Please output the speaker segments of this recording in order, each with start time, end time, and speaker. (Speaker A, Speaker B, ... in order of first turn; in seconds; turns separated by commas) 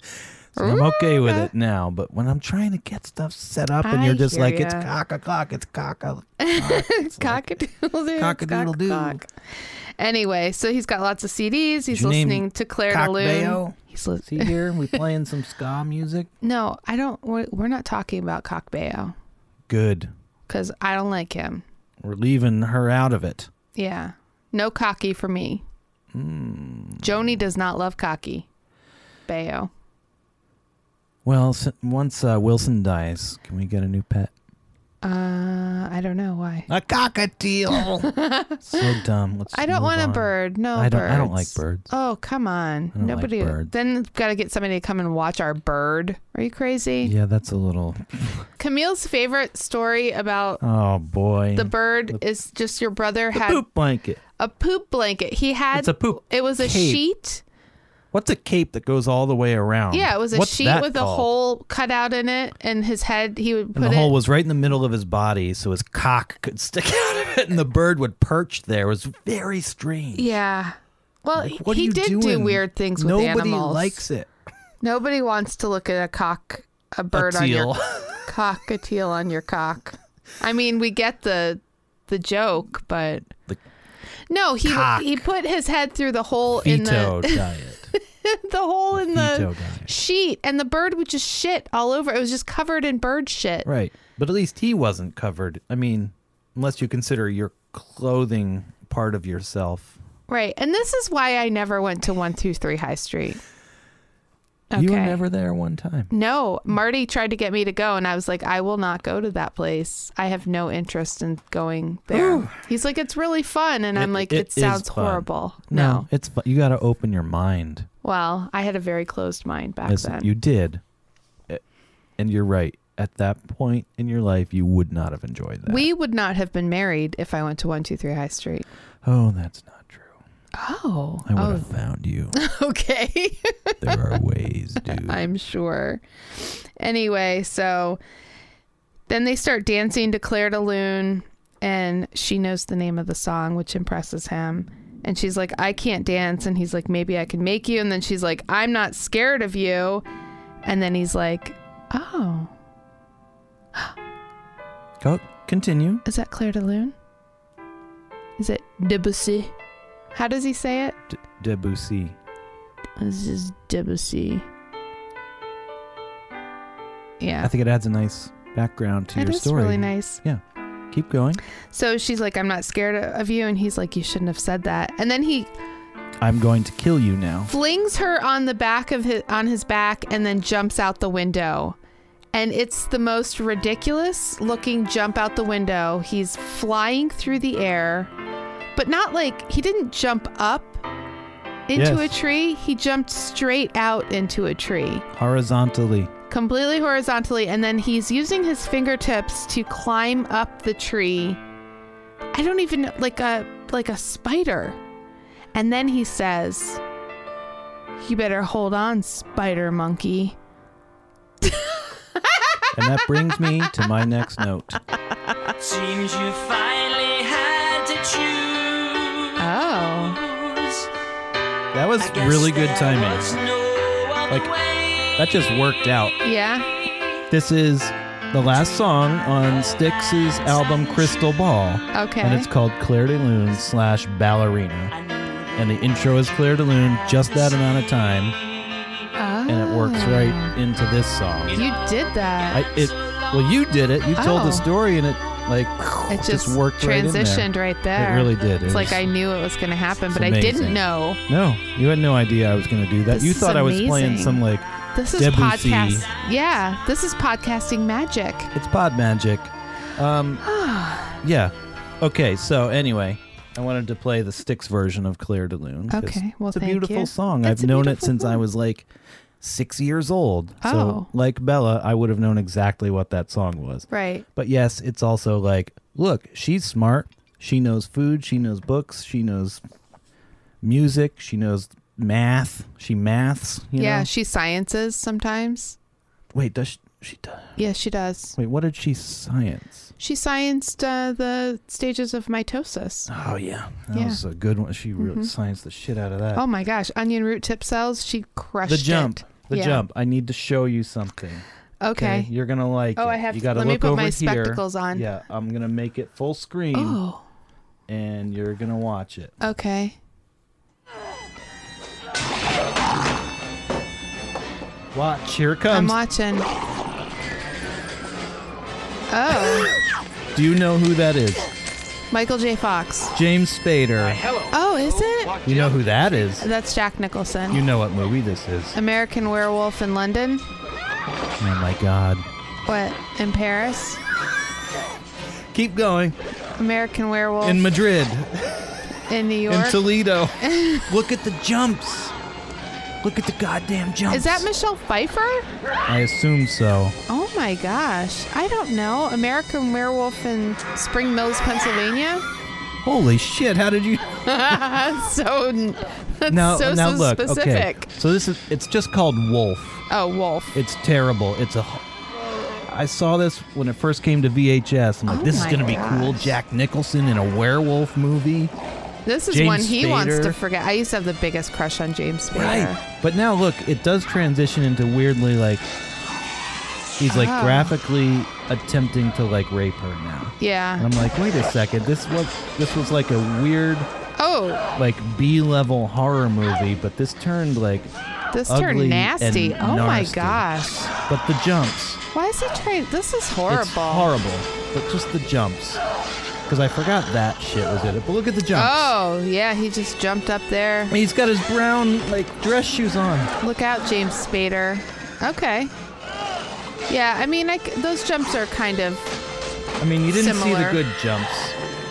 Speaker A: 0.5-7.5, Speaker B: 0.6-1.5, Speaker B: 3.8-4.9, Speaker B: 6.4-9.3, Speaker A: 8.2-9.2, Speaker B: 10.0-15.0, Speaker A: 11.9-16.3, Speaker B: 16.4-19.1, Speaker A: 19.7-20.1, Speaker B: 20.5-21.6, Speaker A: 22.0-23.5, Speaker B: 23.7-25.6, Speaker A: 26.1-27.3, Speaker B: 27.0-28.5, Speaker B: 29.3-29.7, Speaker A: 31.2-34.3, Speaker B: 35.0-36.7, Speaker A: 36.7-41.9, Speaker B: 37.8-38.9, Speaker B: 39.5-47.1, Speaker A: 42.9-43.7, Speaker A: 47.0-48.5, Speaker B: 48.6-50.6, Speaker A: 50.6-52.2, Speaker B: 51.5-53.6, Speaker A: 53.3-54.2, Speaker B: 54.4-57.4, Speaker A: 55.7-57.0, Speaker A: 58.1-61.3, Speaker B: 59.9-64.1, Speaker A: 63.7-70.3, Speaker B: 70.1-74.0, Speaker A: 71.3-74.3, Speaker B: 74.8-83.3, Speaker A: 77.1-78.2, Speaker B: 84.3-93.7, Speaker A: 84.6-85.2, Speaker A: 86.5-87.9, Speaker A: 88.9-89.9, Speaker A: 93.6-100.0, Speaker B: 100.3-103.4, Speaker B: 104.7-105.2, Speaker A: 104.7-106.1, Speaker B: 106.1-116.1, Speaker A: 112.1-112.5, Speaker A: 113.9-117.9, Speaker B: 118.0-120.3, Speaker A: 119.8-120.8, Speaker A: 122.2-125.9, Speaker B: 125.7-128.7, Speaker A: 129.0-130.2, Speaker B: 130.5-131.7, Speaker A: 131.2-132.3, Speaker B: 132.3-134.0, Speaker A: 133.8-135.2, Speaker B: 134.8-138.0, Speaker B: 139.1-150.0, Speaker B: 150.6-152.5, Speaker A: 155.0-156.0, Speaker B: 156.0-156.9, Speaker B: 158.4-159.5, Speaker B: 160.1-160.9, Speaker A: 161.1-162.2, Speaker B: 163.0-164.4, Speaker B: 167.2-167.5, Speaker A: 167.4-171.4, Speaker B: 169.1-170.2, Speaker B: 171.7-175.5, Speaker A: 176.2-177.5, Speaker B: 177.5-181.8, Speaker B: 182.3-188.1, Speaker B: 188.8-190.8, Speaker B: 191.7-195.0, Speaker A: 191.7-192.1, Speaker A: 195.1-196.1, Speaker B: 196.3-201.4, Speaker B: 202.3-204.8, Speaker B: 205.5-206.8, Speaker B: 208.0-210.4, Speaker B: 211.4-213.5, Speaker A: 212.7-214.8, Speaker C: 215.6-219.5, Speaker B: 219.4-220.2, Speaker C: 220.1-220.9, Speaker A: 221.7-223.4, Speaker C: 222.0-225.2, Speaker A: 225.2-226.2, Speaker B: 226.2-226.7, Speaker A: 227.3-234.9, Speaker B: 231.9-232.5, Speaker C: 235.1-235.8, Speaker A: 235.6-238.4, Speaker B: 239.2-240.6, Speaker A: 239.5-241.6, Speaker B: 241.5-242.6, Speaker A: 242.5-249.0, Speaker B: 244.2-244.7, Speaker B: 246.1-251.2, Speaker A: 250.1-256.1, Speaker B: 253.1-254.4, Speaker B: 254.9-258.5, Speaker A: 258.5-260.4, Speaker B: 260.4-261.2, Speaker A: 261.2-268.9, Speaker B: 265.9-268.4, Speaker A: 269.4-279.6, Speaker B: 270.6-271.1, Speaker B: 273.9-274.2, Speaker A: 280.6-284.1, Speaker B: 283.8-285.8, Speaker A: 286.3-287.6, Speaker B: 287.6-288.4, Speaker A: 288.4-289.9, Speaker B: 290.0-293.1, Speaker A: 293.1-296.4, Speaker B: 293.9-294.2, Speaker B: 295.0-295.3, Speaker B: 296.3-299.8, Speaker A: 298.6-307.0, Speaker B: 301.8-302.3, Speaker B: 302.9-305.1, Speaker B: 306.7-307.2, Speaker A: 307.9-309.3, Speaker B: 309.4-310.0, Speaker A: 314.9-316.0, Speaker B: 315.7-316.5, Speaker B: 319.1-319.7, Speaker A: 320.3-321.5, Speaker B: 322.1-323.1, Speaker A: 323.1-324.2, Speaker B: 324.5-325.4, Speaker A: 325.4-326.5, Speaker B: 326.4-327.6, Speaker A: 327.5-328.8, Speaker B: 328.7-330.4, Speaker A: 331.4-332.2, Speaker B: 332.6-334.0, Speaker A: 335.5-336.2, Speaker B: 336.6-337.6, Speaker A: 337.4-338.8, Speaker B: 339.1-339.8, Speaker A: 339.5-342.1, Speaker B: 340.4-340.9, Speaker A: 343.0-344.5, Speaker B: 344.1-345.5, Speaker A: 345.9-347.0, Speaker B: 347.1-352.2, Speaker A: 352.8-354.1, Speaker B: 354.2-357.9, Speaker A: 356.3-359.8, Speaker B: 359.9-360.5, Speaker A: 360.5-361.8, Speaker A: 362.6-368.5, Speaker B: 365.1-366.4, Speaker B: 369.1-372.8, Speaker A: 369.3-370.4, Speaker A: 372.3-375.7, Speaker A: 377.0-383.9, Speaker B: 377.1-377.7, Speaker B: 380.4-380.9, Speaker B: 384.2-384.6, Speaker A: 384.8-387.9, Speaker B: 388.3-390.9, Speaker A: 388.5-392.0, Speaker B: 392.1-394.1, Speaker A: 393.5-395.8, Speaker A: 396.5-398.9, Speaker B: 398.5-400.9, Speaker A: 400.9-403.3, Speaker B: 403.4-405.7, Speaker B: 406.9-409.1, Speaker A: 409.8-411.6, Speaker B: 410.1-410.8